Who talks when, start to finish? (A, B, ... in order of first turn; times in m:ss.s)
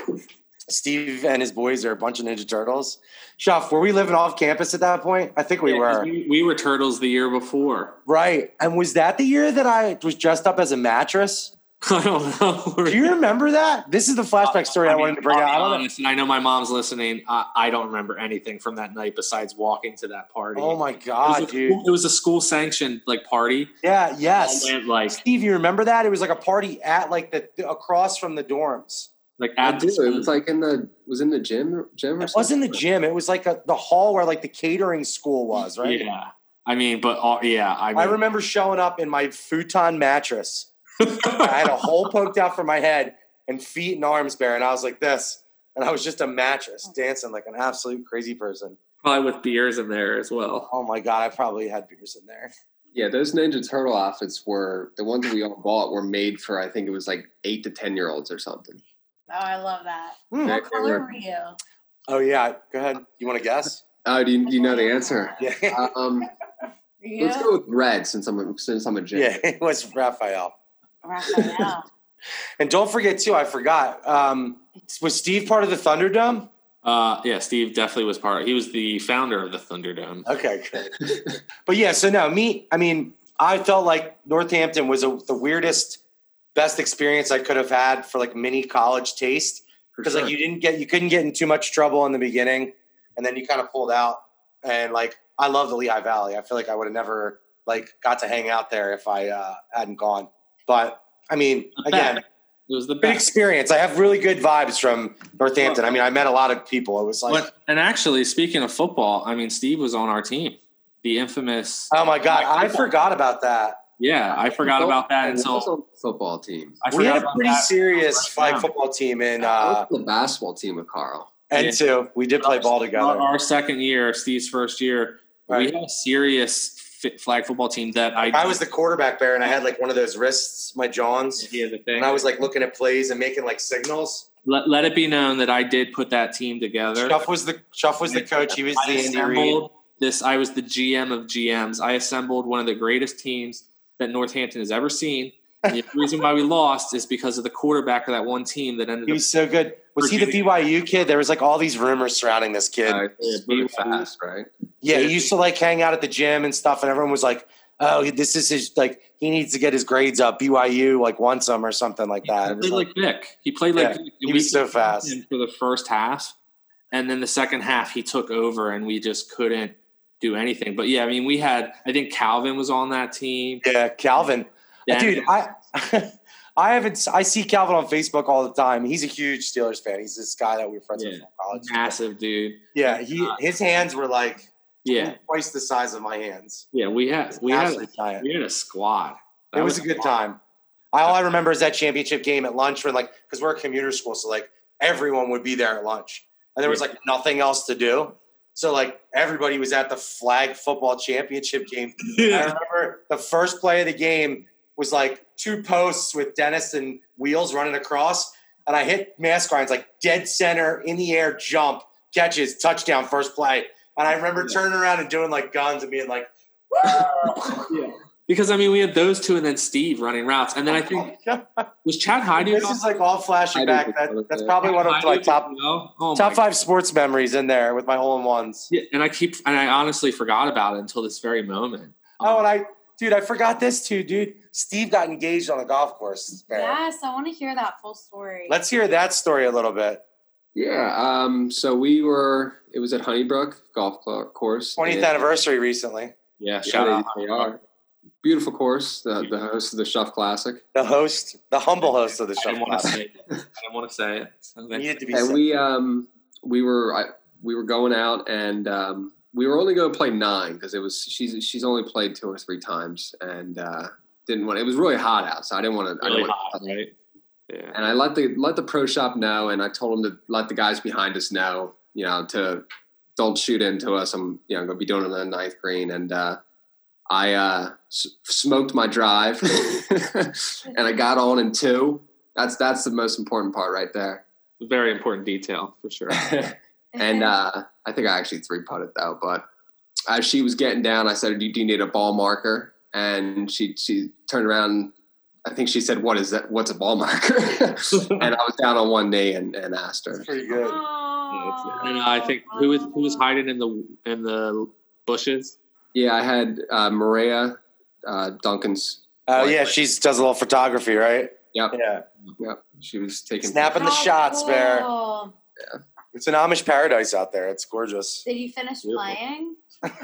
0:00.7-0:06.1 A
0:05.6-0:08.0 B
0:08.1-0:11.5 A
0:11.8-0:13.1 B
0:12.9-0:15.9 A
0:14.4-0:23.7 B
0:20.6-0:21.8 A
0:23.8-0:29.1 A
0:24.4-0:25.2 B
0:29.4-0:30.3 B
0:29.6-0:32.7 C
0:32.2-0:36.0 A
0:35.8-0:38.2 B
0:38.0-0:40.7 A
0:41.0-0:41.9 B
0:41.2-0:48.8 A
0:49.0-0:50.7 B
0:50.7-0:52.5 A
0:52.9-0:58.8 C
0:59.3-1:01.6 D
1:00.3-1:00.7 A
1:00.4-1:01.1 C
1:02.1-1:03.8 A
1:04.0-1:06.3 C
1:04.4-1:05.5 D
1:05.4-1:05.9 A
1:07.0-1:07.6 D
1:07.2-1:09.4 C
1:09.1-1:10.5 A
1:11.0-1:11.8 D
1:12.6-1:16.5 A
1:16.8-1:20.3 B
1:20.3-1:20.9 A
1:21.0-1:21.3 C
1:21.7-1:26.0 A
1:26.6-1:42.2 A
1:29.9-1:30.3 C
1:41.8-1:43.3 B
1:43.0-1:47.5 A
1:47.3-1:52.9 B
1:51.9-1:53.8 A
1:54.0-1:55.7 B
1:54.6-1:56.8 C
1:56.8-1:58.7 B
1:56.9-1:59.9 A
1:59.4-2:01.4 C
2:01.5-2:03.3 A
2:01.5-2:01.8 B
2:02.4-2:08.6 B
2:08.2-2:14.3 A
2:11.4-2:12.3 B
2:14.4-2:17.2 B
2:17.0-2:19.6 A
2:18.1-2:29.2 B
2:29.1-2:33.0 A
2:30.0-2:30.7 B
2:32.9-2:34.5 C
2:33.2-2:34.1 B
2:34.8-2:42.9 A
2:34.9-2:35.3 B
2:42.2-2:46.4 B
2:43.8-2:45.2 A
2:46.9-2:53.6 B
2:53.6-3:01.9 A
2:54.9-2:55.3 B
3:01.0-3:03.4 B
3:02.8-3:06.7 A
3:04.8-3:05.2 B
3:06.7-3:10.1 B
3:07.4-3:08.3 A
3:09.5-3:10.4 A
3:10.9-3:37.7 A
3:22.0-3:22.5 B
3:36.9-3:41.1 B
3:40.7-3:41.7 A
3:41.8-3:42.8 B
3:42.3-3:45.5 A
3:43.5-3:44.6 C
3:44.6-3:46.4 B
3:46.2-3:48.7 A
3:48.7-3:52.5 B
3:52.2-3:56.8 A
3:56.5-3:58.6 D
3:58.5-4:00.0 A
4:00.6-4:05.2 C
4:04.8-4:06.1 A
4:06.4-4:07.5 B
4:06.6-4:07.6 C
4:08.2-4:10.6 C
4:10.7-4:13.0 A
4:11.8-4:15.0 B
4:14.7-4:15.4 A
4:15.1-4:26.7 C
4:26.0-4:26.9 B
4:27.5-4:27.8 B
4:27.7-4:36.4 C
4:37.1-4:44.2 C
4:44.6-4:46.3 B
4:46.2-4:49.5 C
4:46.9-4:47.4 D
4:50.1-4:54.9 C
4:55.4-5:00.3 C
5:00.2-5:00.8 A
5:00.5-5:03.3 D
5:01.3-5:05.6 B
5:05.9-5:09.8 C
5:09.3-5:12.0 A
5:12.4-5:14.0 C
5:13.4-5:14.9 A
5:13.7-5:15.4 D
5:16.1-5:18.2 A
5:18.2-5:19.6 D